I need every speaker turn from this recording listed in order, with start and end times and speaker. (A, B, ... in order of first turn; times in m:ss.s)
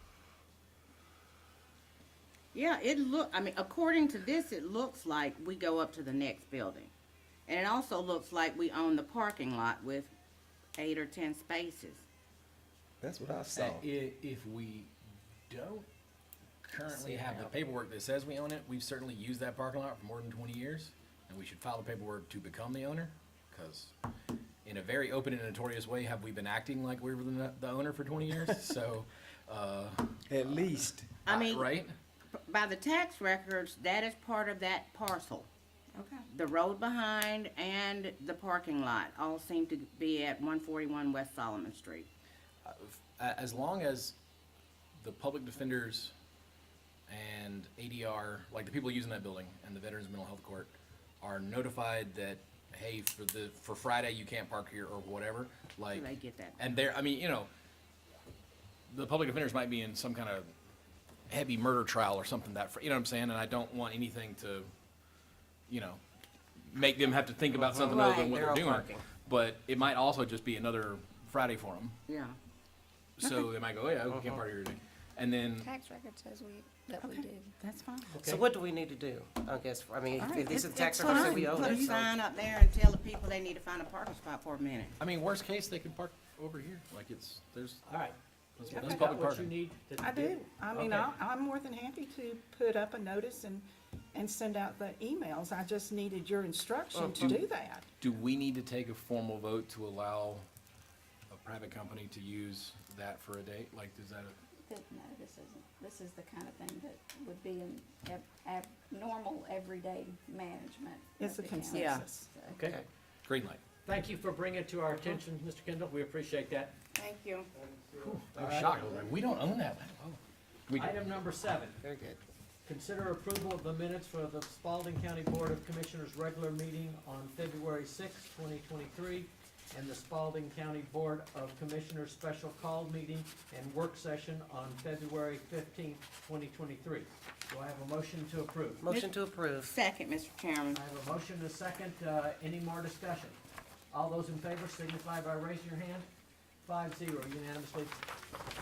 0:02.5-0:06.9 A
0:07.5-0:10.1 A
0:10.8-0:12.0 A
0:13.0-0:13.8 B
0:13.6-0:14.9 C
0:15.5-0:15.9 C
0:16.6-0:23.9 C
0:16.9-0:17.5 D
0:24.6-0:31.9 C
0:30.3-0:31.1 B
0:31.2-0:31.7 A
0:32.3-0:35.5 A
0:35.9-0:36.2 E
0:36.2-0:42.1 A
0:42.6-0:44.1 C
0:45.0-0:46.1 C
0:47.1-0:56.1 C
0:55.9-0:56.6 A
0:56.6-0:57.5 C
0:58.9-1:00.5 C
1:01.3-1:04.7 C
1:05.7-1:06.0 C
1:06.6-1:11.9 C
1:07.5-1:09.0 D
1:07.9-1:08.3 F
1:12.1-1:12.4 A
1:13.2-1:15.7 C
1:14.1-1:14.4 D
1:15.6-1:17.5 F
1:17.0-1:18.2 E
1:18.1-1:18.4 G
1:18.2-1:22.1 D
1:20.2-1:21.9 E
1:20.9-1:25.0 A
1:25.0-1:27.8 C
1:27.8-1:31.1 G
1:28.6-1:29.5 C
1:28.7-1:29.0 E
1:30.0-1:37.9 E
1:36.9-1:37.3 D
1:37.2-1:37.4 C
1:38.0-1:40.4 C
1:41.3-1:44.3 C
1:44.7-1:52.6 F
1:51.2-1:52.4 E
1:51.7-1:52.0 A
1:52.5-1:52.8 G
1:52.6-1:52.8 D
1:53.2-1:53.6 C
1:53.8-1:56.7 G
1:57.0-1:57.5 A
1:57.6-1:59.3 B
1:58.0-2:01.0 C
1:58.3-1:58.7 G
2:00.7-2:01.8 G
2:01.8-2:02.2 D
2:02.6-2:18.9 G
2:18.8-2:19.7 D
2:19.6-2:20.8 A
2:20.7-2:23.4 G
2:23.9-2:26.0 G
2:26.6-2:28.0 G